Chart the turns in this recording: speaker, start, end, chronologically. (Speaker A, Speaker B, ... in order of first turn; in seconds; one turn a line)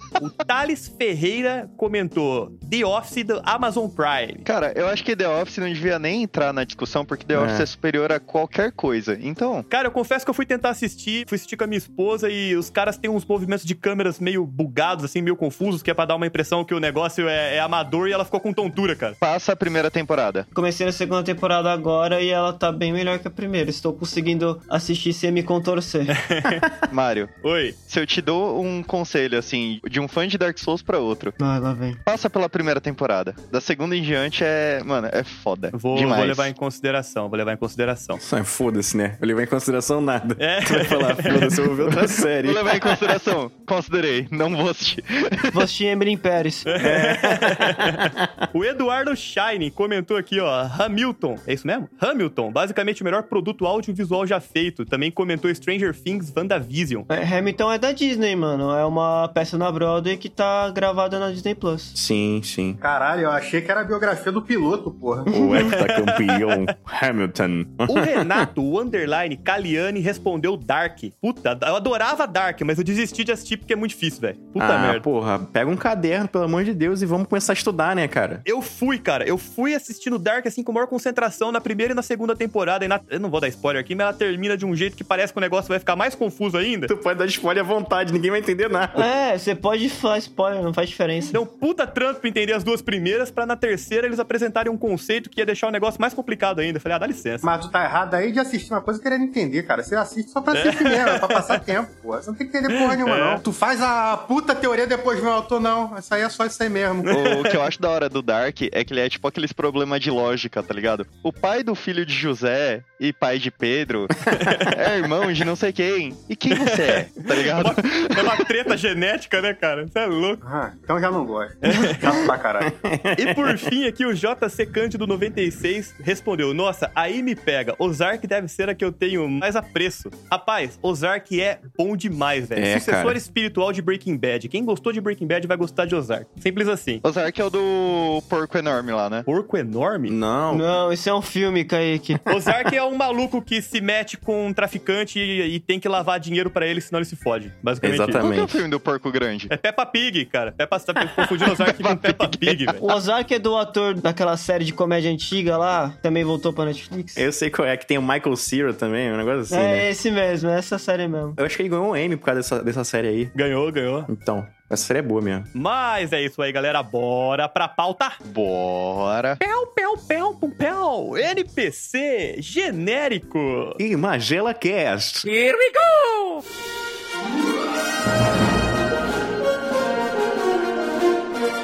Speaker A: 0.2-4.4
Speaker B: 4.4-9.7
Speaker C: 7.3-7.7
Speaker A: 9.7-19.2
Speaker B: 19.2-20.5
Speaker D: 20.5-26.2
Speaker A: 26.1-26.7
Speaker B: 26.9-27.3
Speaker A: 27.4-27.8
Speaker B: 27.8-31.4
Speaker D: 31.4-32.0
Speaker B: 32.1-36.5
Speaker A: 35.7-38.2
Speaker C: 38.2-43.0
Speaker A: 40.4-41.9
Speaker B: 42.4-45.6
Speaker D: 45.5-46.7
Speaker A: 46.6-57.1
Speaker C: 46.8-48.4
Speaker D: 57.1-61.9
Speaker C: 61.9-62.8
Speaker E: 62.8-65.3
Speaker D: 65.3-65.7
Speaker C: 65.3-68.5
Speaker A: 65.7-66.7
Speaker A: 67.9-75.0
Speaker C: 74.6-78.4
Speaker A: 78.5-86.9
Speaker C: 86.9-89.1
Speaker D: 88.9-91.4
Speaker A: 91.3-97.5
Speaker E: 97.4-107.1
Speaker A: 100.5-101.6
Speaker A: 102.7-103.4
Speaker A: 107.1-107.6
Speaker B: 107.1-114.1
Speaker A: 114.4-114.7
Speaker B: 114.7-118.3
Speaker A: 116.5-120.4
Speaker E: 120.4-122.7
Speaker A: 121.6-122.0
Speaker D: 121.7-122.1
Speaker C: 122.6-123.7
Speaker A: 123.2-137.0
Speaker C: 132.6-133.2
Speaker B: 137.0-139.3
Speaker A: 139.3-140.2
Speaker C: 140.1-140.7
Speaker D: 140.5-142.2
Speaker A: 142.3-148.2
Speaker C: 147.8-148.6
Speaker B: 148.2-149.5
Speaker A: 149.5-152.9
Speaker B: 151.7-152.8
Speaker D: 152.8-157.2
Speaker C: 157.2-159.9
Speaker D: 159.5-161.4
Speaker C: 161.4-163.3
Speaker A: 163.3-164.1
Speaker C: 164.1-165.5
Speaker A: 165.6-168.2
Speaker B: 168.2-169.4
Speaker A: 169.4-173.8
Speaker C: 173.8-175.3